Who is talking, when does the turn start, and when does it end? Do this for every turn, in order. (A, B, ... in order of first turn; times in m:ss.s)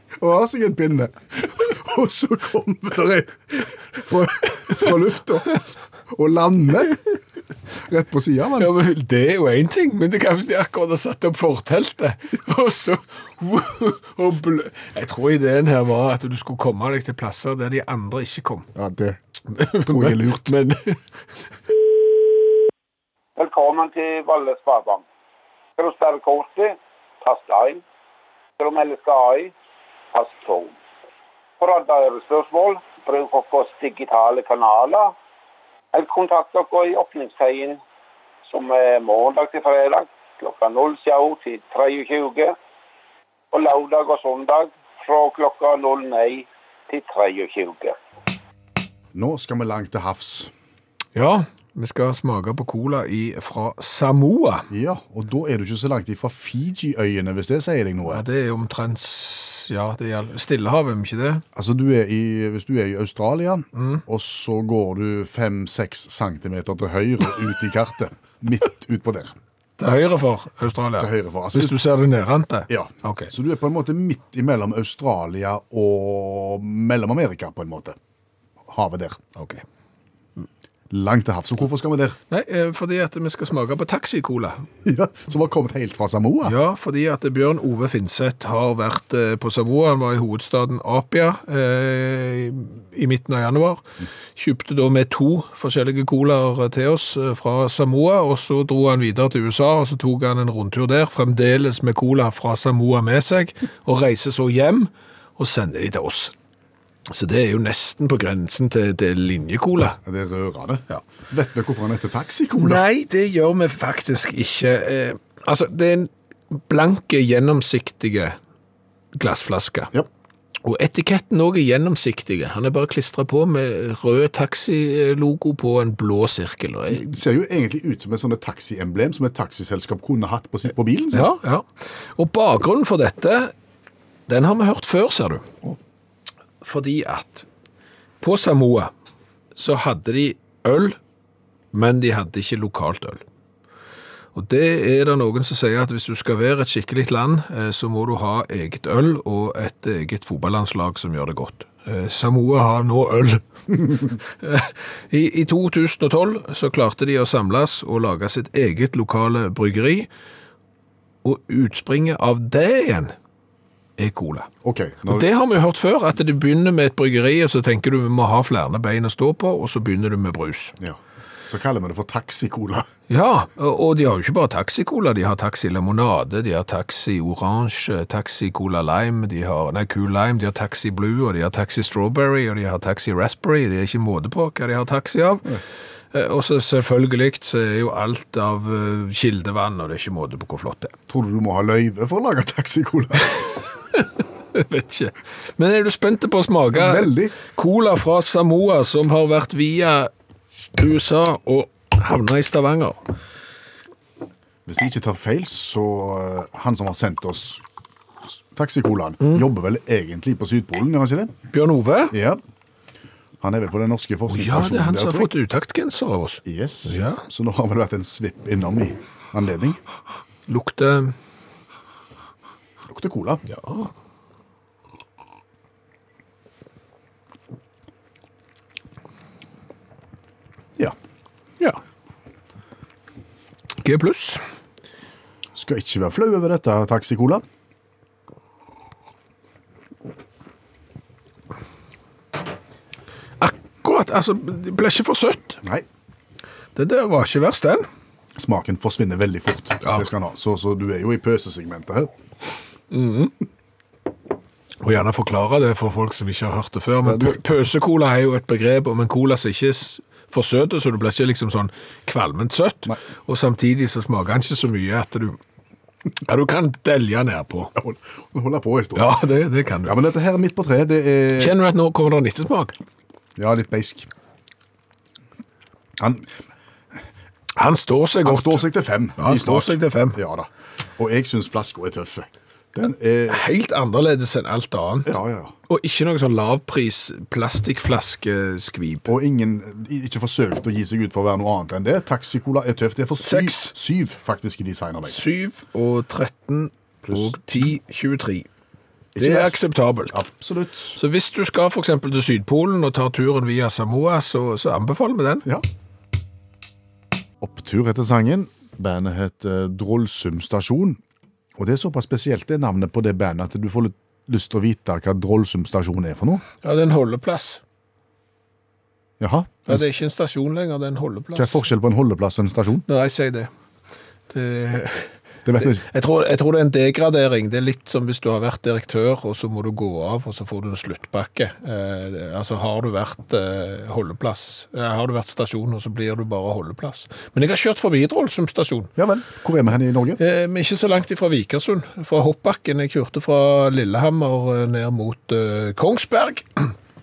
0:00.2-0:05.6 A
0:06.1-0:07.0 A
0:07.8-0:08.7 A
0:08.6-0:18.7 B
0:18.7-0:19.2 A
0:19.5-0:21.0 B
0:19.8-0:20.5 A
0:23.4-0:25.0 C
0:25.8-0:27.8 C
0:28.6-0:29.5 C
0:30.1-0:30.8 C
0:31.6-0:35.1 C
0:35.9-0:37.8 C
0:38.4-0:42.6 C
0:43.5-0:48.0 C
0:49.1-0:50.5 A
0:51.1-0:54.7 B
0:54.7-0:58.2 A
0:58.1-1:01.4 B
1:01.5-1:09.4 A
1:03.7-1:04.0 B
1:09.8-1:13.3 B
1:11.0-1:11.8 A
1:12.7-1:18.0 A
1:18.6-1:19.2 A
1:19.4-1:19.6 B
1:20.9-1:22.2 A
1:22.3-1:24.7 B
1:24.8-1:26.5 A
1:26.4-1:46.3 B
1:47.1-1:50.0 B
1:50.0-1:52.8 A
1:52.6-1:58.4 B
1:59.1-1:59.9 B
2:00.6-2:07.2 B
2:06.9-2:11.3 A
2:11.1-2:13.5 B
2:14.3-2:15.7 B
2:16.6-2:17.4 B
2:18.2-2:18.9 B
2:19.5-2:21.0 B
2:21.7-2:23.2 B
2:24.3-2:40.1 B
2:41.2-2:43.1 B
2:44.0-2:44.5 B
2:44.6-2:45.3 A
2:45.0-2:50.7 B
2:50.8-2:52.9 A
2:53.1-3:05.6 B
3:06.1-3:10.9 B
3:11.1-3:13.4 A
3:13.4-3:23.0 B
3:16.7-3:17.4 A
3:24.6-3:27.6 A
3:28.3-3:31.3 A
3:29.2-3:29.5 B
3:31.5-3:32.2 B
3:32.1-3:32.4 A
3:33.4-3:35.3 A
3:34.3-3:37.2 B
3:36.4-3:39.8 A
3:40.5-3:41.1 B
3:42.8-3:43.4 A
3:43.5-3:43.9 B
3:53.8-3:54.4 B
3:55.5-3:57.4 A
4:03.4-4:05.6 B
4:06.8-4:07.9 B
4:08.3-4:12.1 A
4:09.8-4:10.1 B
4:12.9-4:13.3 B
4:14.8-4:25.4 B
4:17.0-4:17.4 A
4:26.2-4:27.7 B
4:27.8-4:29.2 A
4:28.9-4:29.9 B
4:29.8-4:31.6 A
4:31.4-4:32.7 B
4:33.4-4:34.1 A
4:36.0-4:36.3 A
4:37.5-4:40.2 B
4:38.2-4:43.4 A
4:43.3-4:45.2 B
4:45.0-4:45.5 A
4:45.7-4:49.1 B
4:49.0-4:55.2 A
4:53.2-4:53.8 B
4:55.0-4:58.5 B
4:57.0-4:57.6 A
4:59.1-5:01.0 A
4:59.2-5:00.2 B
5:01.0-5:05.4 B
5:07.4-5:11.0 A
5:11.6-5:16.4 A
5:16.6-5:17.6 B
5:19.2-5:19.9 A
5:19.7-5:21.6 B
5:21.3-5:22.8 A
5:22.9-5:23.5 B
5:24.3-5:38.9 B
5:25.4-5:25.8 A
5:39.0-5:40.2 A
5:40.2-5:46.7 B